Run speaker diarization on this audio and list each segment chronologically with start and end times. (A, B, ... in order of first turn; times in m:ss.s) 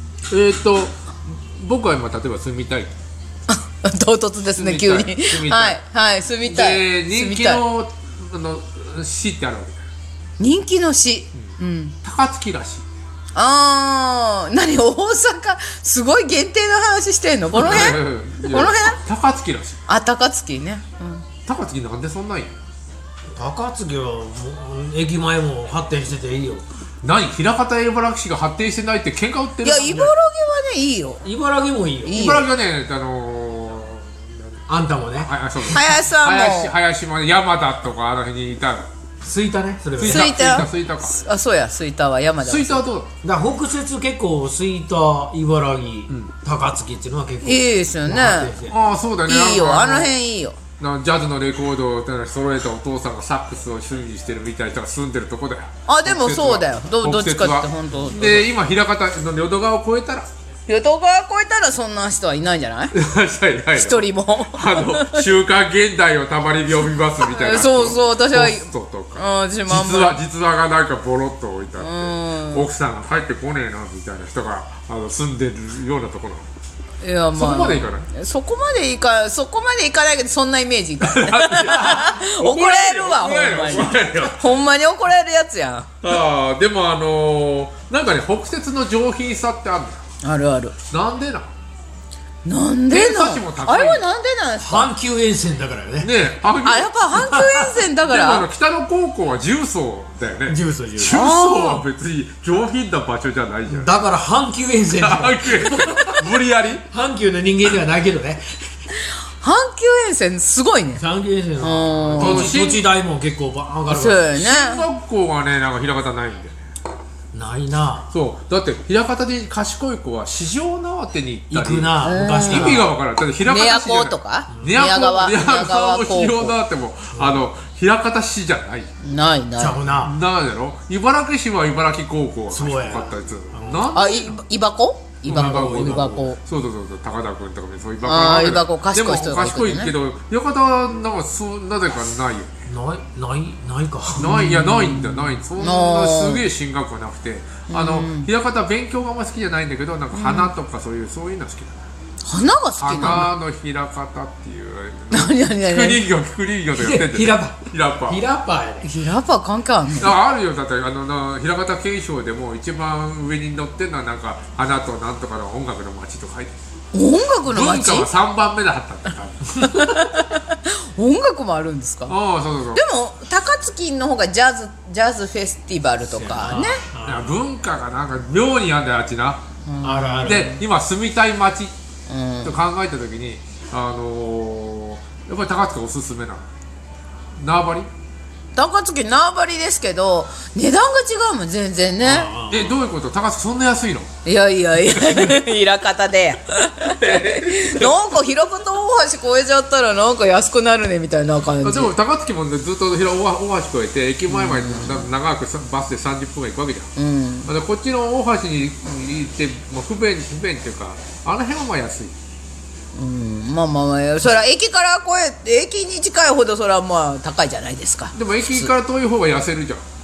0:00.3-0:01.0 A
0:01.5-0:02.9 A
0:03.5-0:07.6 B
0:04.6-0:05.8 A
0:06.4-0:09.8 A
0:10.4-0:12.0 B
0:12.0-0:12.9 A
0:13.3-0:19.0 B
0:17.5-0:19.8 A
0:19.9-0:21.2 B
0:21.4-0:22.6 A
0:23.3-0:26.6 C
0:27.0-0:30.1 A
0:29.6-0:31.2 B
0:31.2-0:32.2 C
0:32.0-0:34.2 A
0:32.0-0:32.5 B
0:34.7-0:35.8 C
0:35.2-0:38.9 A
0:35.7-0:36.7 B
0:39.2-0:40.3 C
0:40.0-0:41.2 A
0:40.0-0:42.8 B
0:42.4-0:43.1 A
0:43.2-0:48.8 C
0:47.4-0:48.5 B
0:48.7-0:50.1 A
0:49.2-0:50.6 B
0:50.8-1:00.3 A
0:55.9-0:58.5 B
1:00.7-1:02.9 B
1:02.9-1:16.4 A
1:03.8-1:05.3 B
1:07.2-1:10.2 B
1:11.8-1:12.7 B
1:17.0-1:25.9 B
1:17.3-1:18.1 A
1:21.0-1:24.5 A
1:26.0-1:30.0 A
1:30.2-1:30.7 B
1:30.9-1:31.5 A
1:32.4-1:34.9 B
1:32.9-1:34.0 A
1:34.6-1:36.1 C
1:36.0-1:36.9 A
1:36.6-1:38.5 B
1:37.1-1:37.8 C
1:38.0-1:43.9 A
1:40.4-1:41.2 C
1:41.1-1:41.8 B
1:43.7-1:46.2 C
1:44.9-1:46.8 A
1:46.9-1:48.4 C
1:49.4-1:51.0 B
1:51.0-1:54.2 C
1:51.6-1:52.5 B
1:52.2-1:52.8 A
1:53.9-1:54.8 B
1:54.3-1:56.6 A
1:57.3-1:58.1 C
1:58.1-2:08.9 A
2:01.5-2:02.9 C
2:02.0-2:02.8 B
2:03.4-2:06.6 B
2:09.0-2:09.8 B
2:09.6-2:10.2 C
2:10.0-2:14.4 A
2:12.5-2:13.8 C
2:13.9-2:16.4 B
2:15.2-2:22.5 A
2:15.3-2:16.2 C
2:18.0-2:19.9 B
2:22.7-2:24.3 C
2:24.2-2:31.8 A
2:24.2-2:26.4 B
2:27.7-2:28.3 B
2:30.1-2:30.5 B
2:32.2-2:33.3 B
2:32.8-2:38.2 A
2:35.1-2:36.0 B
2:36.7-2:38.9 C
2:38.8-2:40.1 B
2:40.0-2:46.5 A
2:46.9-2:48.1 B
2:47.5-2:49.4 A
2:49.6-2:52.1 B
2:52.1-2:52.8 A
2:52.7-2:56.8 B
2:56.0-2:57.4 C
2:57.0-2:59.4 A
2:59.6-3:00.6 B
2:59.8-3:00.6 C
3:00.2-3:01.7 A
3:02.1-3:02.6 B
3:02.4-3:06.4 A
3:07.4-3:07.9 A
3:08.5-3:12.3 B
3:12.0-3:12.8 C
3:12.5-3:14.1 A
3:14.2-3:21.9 B
3:14.9-3:15.4 A
3:17.0-3:18.1 A
3:21.6-3:26.9 A
3:24.3-3:25.1 B
3:27.0-3:27.5 B
3:27.4-3:32.1 A
3:32.9-3:38.7 B
3:38.1-3:39.8 A